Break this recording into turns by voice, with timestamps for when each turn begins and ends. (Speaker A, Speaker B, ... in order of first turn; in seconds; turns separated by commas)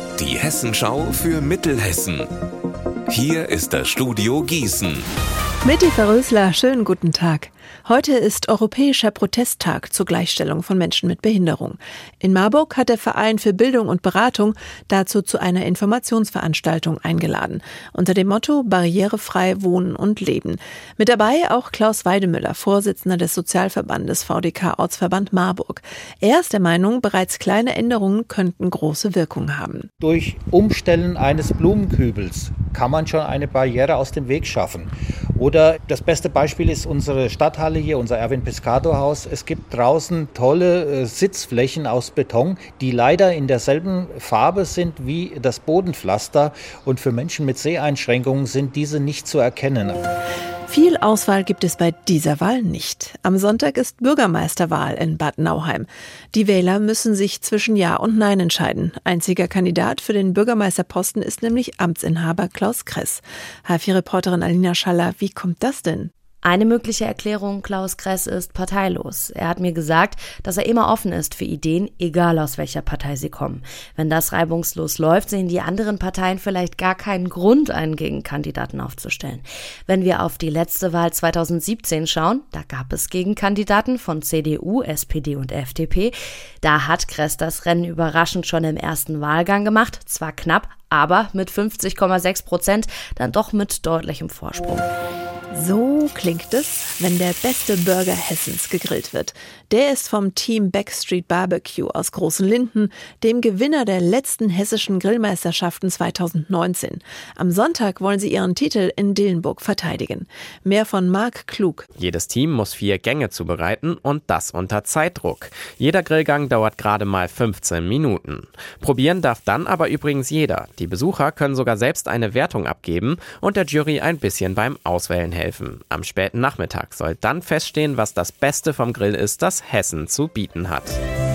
Speaker A: 0.2-2.3, Speaker A: 3.1-5.1, Speaker B: 5.6-29.9, Speaker C: 30.0-50.0, Speaker B: 50.7-66.1, Speaker D: 66.4-94.9, Speaker B: 95.5-111.9, Speaker E: 112.0-131.0